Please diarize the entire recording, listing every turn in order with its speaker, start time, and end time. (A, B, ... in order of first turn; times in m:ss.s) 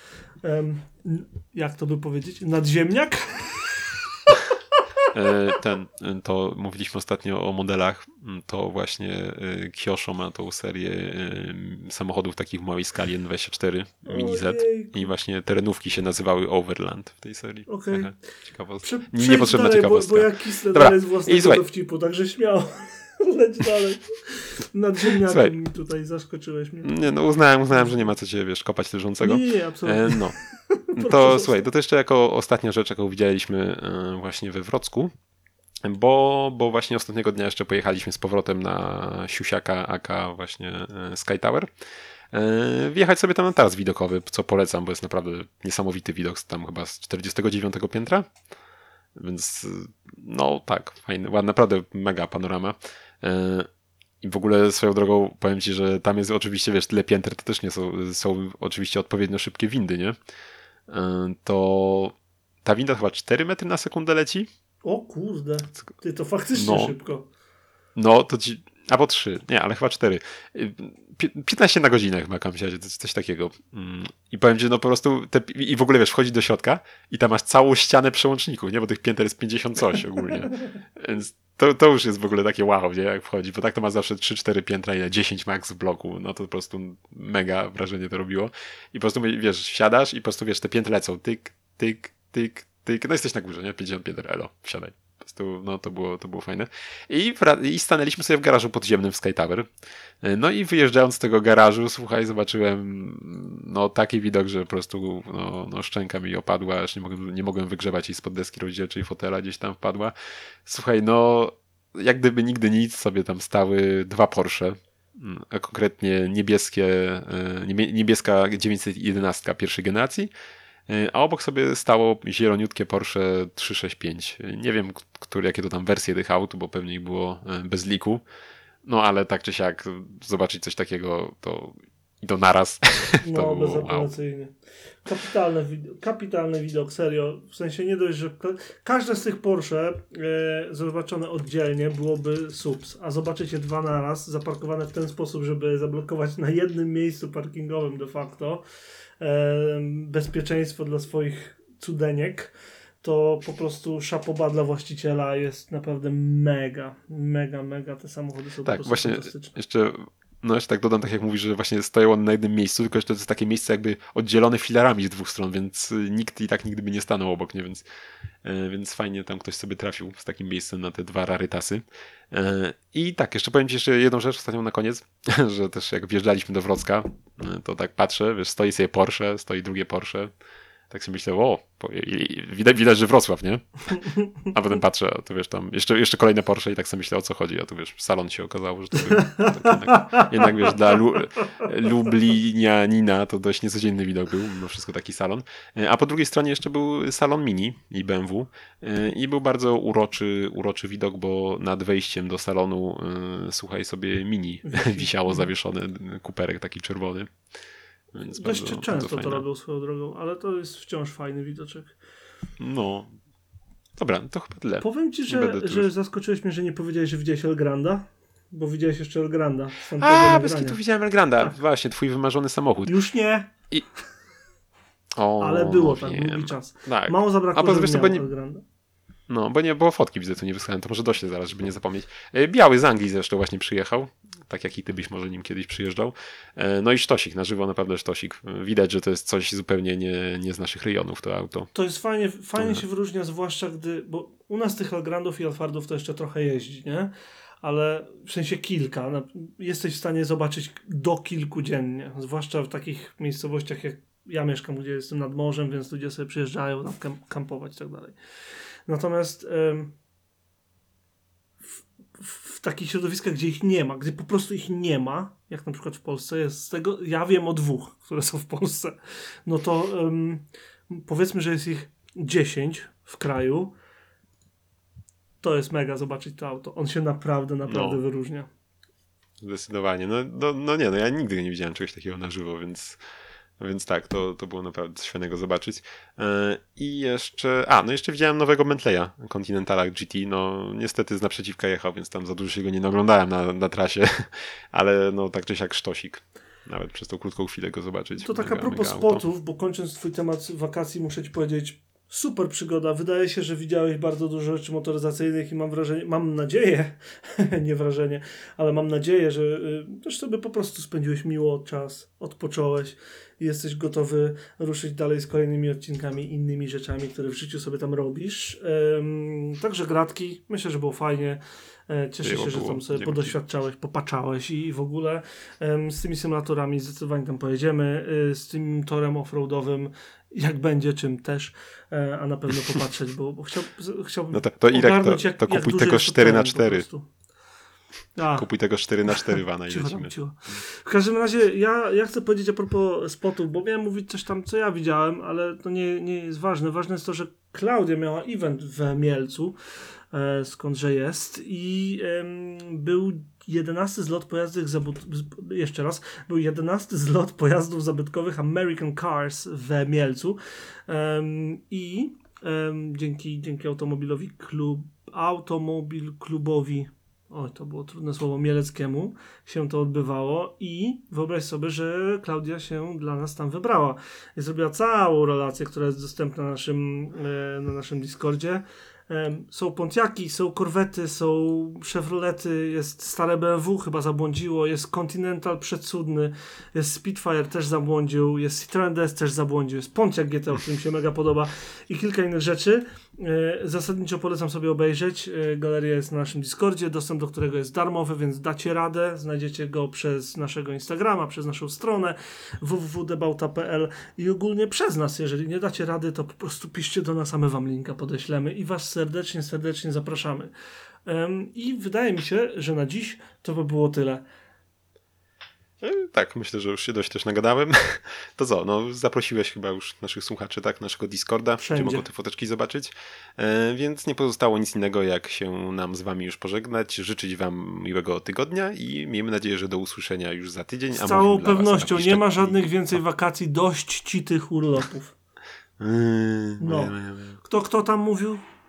0:00.4-0:05.0 A
0:05.1-0:21.6 B
0:14.0-0:15.1 A
0:17.7-0:18.2 A
0:18.8-0:26.9 A
0:25.2-0:25.5 B
0:26.8-0:30.4 B
0:27.7-0:28.1 A
0:29.2-0:31.7 A
0:31.0-0:35.1 B
0:35.8-0:41.7 B
0:42.3-0:48.3 B
0:49.2-0:53.7 B
0:54.2-1:00.2 B
1:00.9-1:04.5 B
1:04.8-1:07.3 A
1:06.5-1:06.9 B
1:08.0-1:39.7 B
1:40.2-1:50.1 B
1:50.6-2:00.3 B
2:00.9-2:08.2 B
2:08.8-2:14.1 B
2:13.2-2:28.6 A
2:29.2-2:39.5 A
2:38.6-2:47.8 B
2:48.4-3:00.3 B
3:00.9-3:27.3 B
3:09.1-3:11.0 A
3:24.6-3:25.5 A
3:28.1-3:29.4 B
3:28.3-3:31.9 A
3:32.6-3:33.1 B
3:34.0-3:35.9 B
3:34.8-3:40.8 A
3:40.0-3:43.0 B
3:42.8-3:43.5 A
3:45.2-3:48.3 B
3:45.4-3:48.6 A
3:49.3-4:01.7 B
4:01.7-4:18.2 A
4:02.6-4:02.8 B
4:18.8-4:19.9 A
4:21.7-4:33.7 A
4:35.4-4:38.5 A
4:37.6-4:38.0 B
4:39.4-4:43.0 B
4:43.6-4:59.2 B
4:58.2-5:37.1 A
5:22.2-5:23.4 B
5:34.3-5:36.9 B
5:38.2-5:38.5 A
5:38.3-5:40.1 B
5:39.1-5:49.6 A
5:50.1-6:50.5 A
6:51.0-6:54.2 A
6:55.8-7:12.7 B
7:01.6-7:02.0 A
7:10.9-7:15.1 A
7:15.8-7:17.4 B
7:16.6-7:18.4 A